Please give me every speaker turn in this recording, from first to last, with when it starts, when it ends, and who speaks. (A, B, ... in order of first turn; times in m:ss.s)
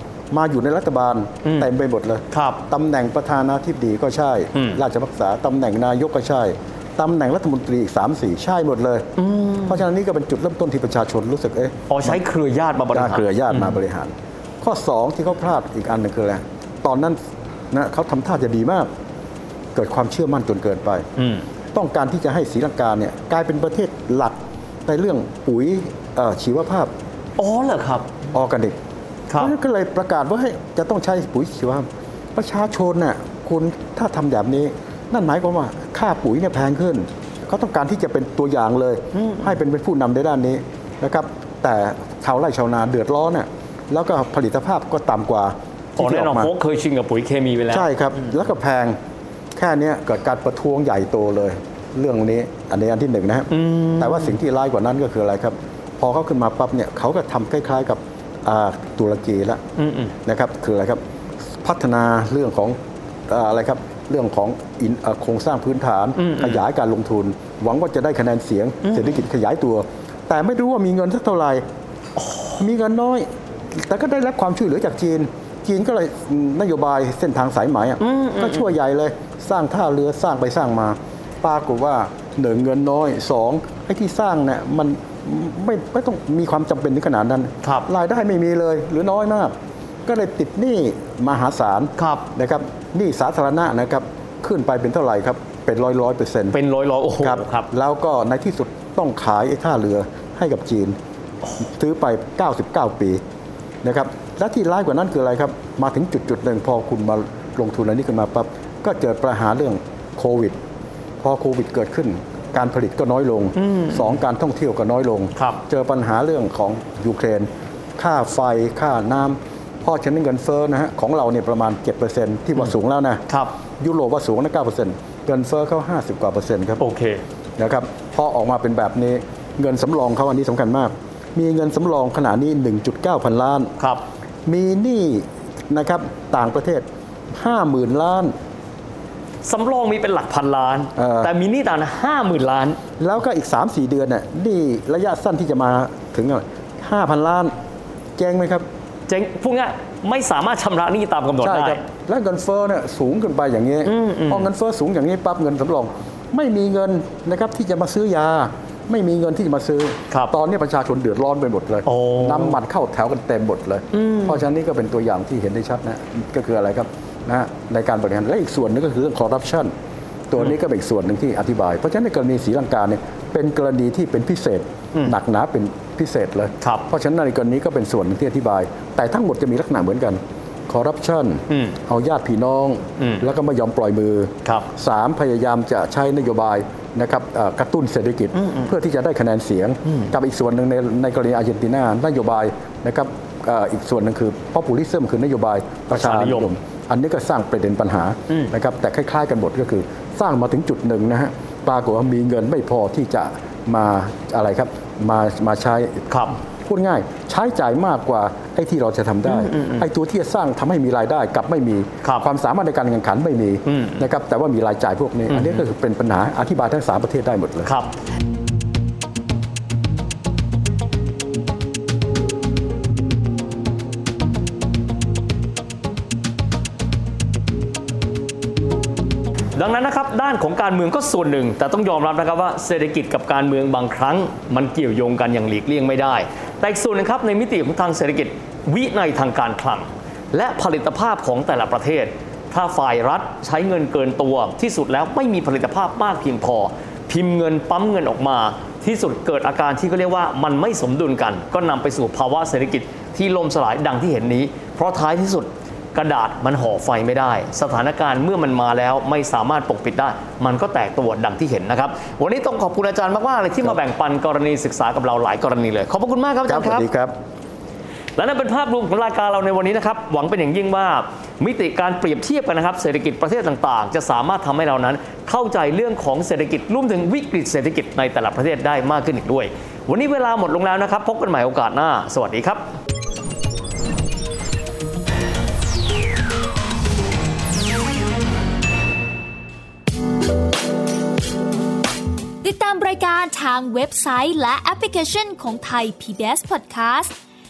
0:00.3-0:09.1 A
0:01.4-0:01.7 B
0:02.3-0:02.6 B
0:04.5-0:04.8 B
0:09.2-0:09.8 B
0:09.7-0:12.2 A
0:11.9-0:13.8 B
0:12.9-0:17.2 A
0:17.7-0:18.9 A
0:19.8-0:21.1 A
0:21.2-0:21.4 B
0:21.7-0:26.9 A
0:27.4-0:28.1 B
0:28.3-0:28.8 A
0:29.3-0:29.6 B
0:29.4-0:46.5 A
0:39.1-0:39.6 B
0:46.0-0:48.3 B
0:47.7-0:49.0 A
0:49.6-0:59.6 A
0:53.5-0:54.4 B
0:59.8-1:00.1 B
1:00.3-1:01.0 A
1:01.6-1:02.8 A
1:03.3-1:11.6 A
1:06.2-1:06.6 B
1:08.8-1:09.1 B
1:12.2-1:12.6 B
1:12.6-1:29.5 A
1:18.0-1:18.7 B
1:27.6-1:27.9 B
1:30.1-1:36.6 A
1:32.0-1:32.3 B
1:36.5-1:37.7 B
1:37.2-1:41.0 A
1:41.6-1:43.2 A
1:43.8-1:50.6 A
1:51.2-2:03.2 A
1:53.6-1:54.2 B
1:55.4-1:55.6 B
2:03.3-2:03.6 B
2:03.8-2:06.8 A
2:06.8-2:07.2 B
2:07.6-2:13.7 A
2:13.8-2:14.0 B
2:14.5-2:18.3 A
2:19.4-2:22.8 B
2:21.0-2:21.3 A
2:23.0-2:27.5 A
2:28.2-2:28.6 A
2:29.1-2:31.8 B
2:31.4-2:49.7 A
2:33.8-2:34.5 B
2:41.8-2:42.6 B
2:43.9-2:44.4 B
2:50.3-3:26.0 A
2:56.6-2:56.9 B
3:01.5-3:01.8 B
3:03.0-3:03.2 B
3:08.4-3:08.7 B
3:15.9-3:16.5 B
3:26.1-3:26.4 B
3:26.7-3:37.7 A
3:29.3-3:29.9 B
3:32.0-3:32.3 B
3:33.7-3:34.0 B
3:35.3-3:35.7 B
3:37.6-3:37.9 B
3:49.6-4:26.9 B
4:26.5-4:27.1 A
4:28.2-4:42.7 B
4:52.4-4:57.1 C